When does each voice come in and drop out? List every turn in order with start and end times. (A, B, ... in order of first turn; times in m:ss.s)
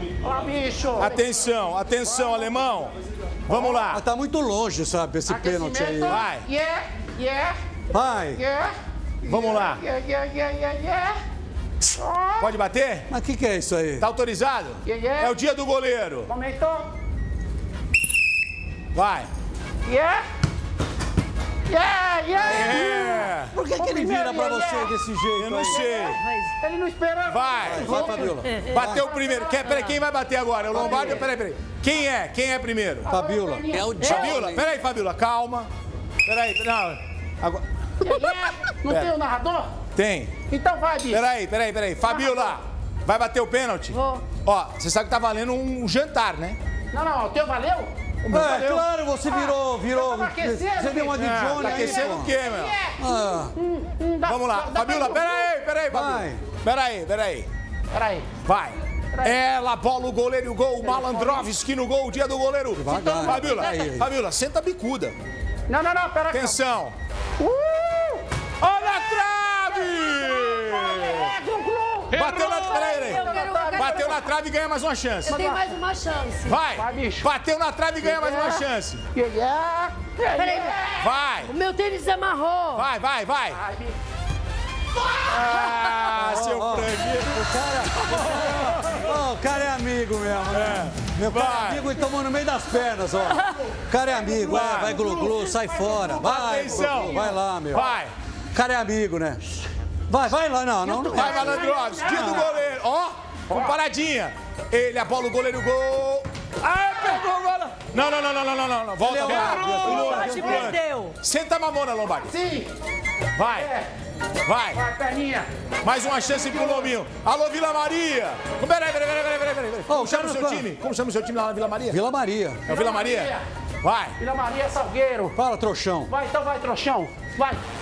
0:00.2-0:01.2 A
0:01.0-0:02.9 B
0:02.2-0:02.5 A
0:03.5-0:04.0 B
0:03.5-0:03.8 A
0:03.9-0:06.2 C
0:05.3-0:07.6 A
0:06.0-0:06.4 B
0:07.9-0:08.4 C
0:08.3-0:11.2 A
0:09.3-0:09.8 B
0:11.8-0:12.5 A
0:12.4-0:13.1 B
0:13.1-0:14.0 C
0:14.0-0:16.3 B
0:14.8-0:15.3 A
0:16.3-0:16.9 A
0:18.9-0:19.3 B
0:19.8-0:20.2 A
0:21.7-0:24.9 A
0:22.4-0:23.5 B
0:23.6-0:25.8 C
0:25.3-0:26.2 B
0:25.7-0:28.3 A
0:25.9-0:26.5 D
0:27.3-0:28.0 B
0:27.6-0:28.8 C
0:27.8-0:28.8 D
0:28.6-0:33.1 B
0:28.8-0:29.8 A
0:30.7-0:31.3 A
0:33.0-0:34.5 A
0:33.1-0:34.6 C
0:34.0-0:34.4 D
0:34.0-0:35.7 B
0:36.2-0:37.6 B
0:38.0-0:39.7 A
0:38.8-0:39.1 B
0:40.0-0:40.3 B
0:40.5-0:41.2 A
0:41.1-0:46.6 B
0:42.0-0:42.5 A
0:43.9-0:44.2 D
0:46.9-0:47.9 A
0:48.2-0:48.9 B
0:48.3-0:52.3 C
0:49.2-0:53.0 A
0:51.2-0:52.8 B
0:53.0-0:53.5 C
0:53.6-0:55.5 A
0:54.3-0:57.5 B
0:55.9-0:56.4 C
0:57.9-0:58.3 A
0:58.4-1:05.2 B
1:00.8-1:01.5 A
1:02.8-1:04.1 C
1:02.9-1:03.4 A
1:03.3-1:04.0 D
1:05.7-1:06.6 A
1:06.3-1:06.9 B
1:07.4-1:08.2 A
1:08.6-1:11.3 B
1:09.9-1:12.3 A
1:12.1-1:15.4 B
1:12.3-1:14.3 D
1:13.0-1:14.2 A
1:15.2-1:16.6 D
1:15.3-1:15.8 A
1:16.5-1:19.0 B
1:16.8-1:17.3 A
1:18.0-1:21.1 A
1:20.4-1:20.9 D
1:21.0-1:21.5 B
1:21.4-1:22.8 D
1:22.8-1:23.6 B
1:23.6-1:24.0 A
1:25.2-1:27.5 B
1:26.1-1:37.9 C
1:28.1-1:29.0 B
1:30.5-1:31.9 B
1:33.7-1:37.4 A
1:34.4-1:35.0 B
1:36.1-1:38.1 B
1:38.5-1:39.6 C
1:40.1-1:41.6 C
1:40.8-1:42.6 A
1:41.1-1:52.3 B
1:43.5-1:43.8 A
1:49.0-1:50.6 C
1:49.4-1:51.2 D
1:50.2-1:50.7 A
1:52.3-1:52.7 A
1:53.3-1:53.7 B
1:53.5-1:53.9 A
1:54.4-1:54.8 B
1:54.8-1:55.5 A
1:55.8-2:02.0 B
1:56.1-1:56.9 A
1:59.9-2:00.7 C
2:01.9-2:02.6 C
2:02.7-2:03.4 A
2:02.7-2:04.2 B
2:04.2-2:05.4 A
2:05.3-2:06.1 C
2:06.1-2:07.6 A